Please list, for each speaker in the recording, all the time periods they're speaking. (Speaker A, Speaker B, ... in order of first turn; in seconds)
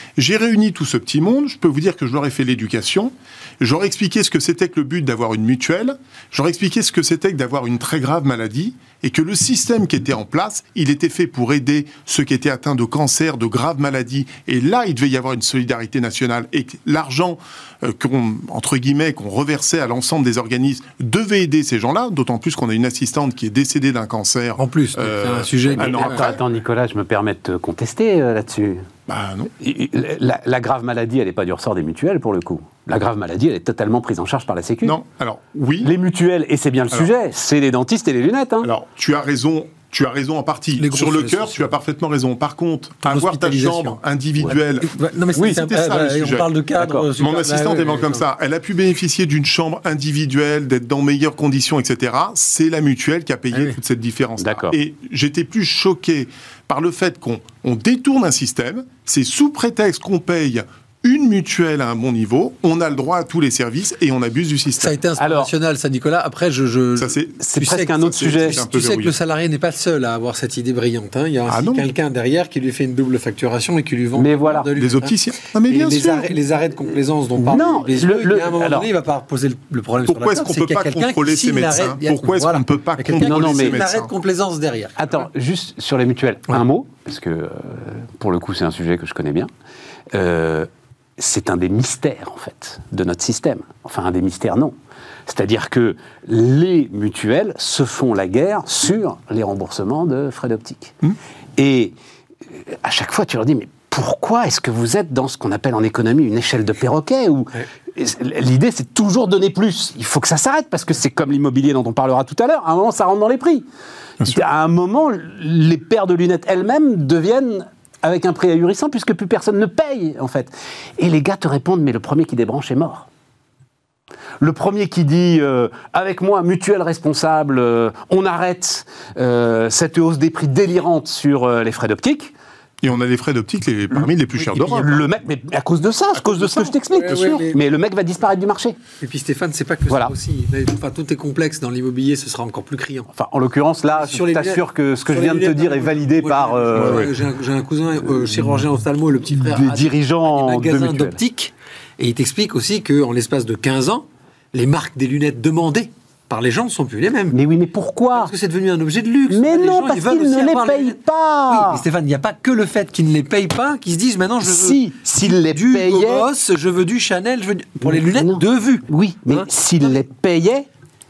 Speaker A: 0.2-26.4, 29.1-29.5, 34.8-35.9, 38.6-46.5, 47.2-65.0, 67.0-69.1, 71.5-71.9, 74.8-76.4, 80.1-84.1, 132.8-135.0, 136.2-137.4, 146.7-147.1
Speaker B: 24.6-26.3, 40.8-41.7, 43.0-44.0, 44.5-48.2, 53.5-53.8, 64.8-75.1, 75.7-85.1, 136.9-137.6, 139.0-143.1, 143.9-157.4, 158.1-169.5
Speaker C: 25.8-28.9, 29.6-35.0, 35.8-38.7, 46.8-47.1, 54.4-54.8, 65.2-65.5, 67.4-68.6, 74.2-74.7, 77.4-78.9, 83.2-83.8, 85.0-89.5, 90.1-94.7, 95.3-100.9, 101.6-101.9, 102.6-113.7, 114.2-123.1, 124.4-132.3, 133.9-138.8, 143.1-147.1, 149.4-151.2, 157.3-158.3, 159.3-161.8, 164.4-166.3, 167.8-170.7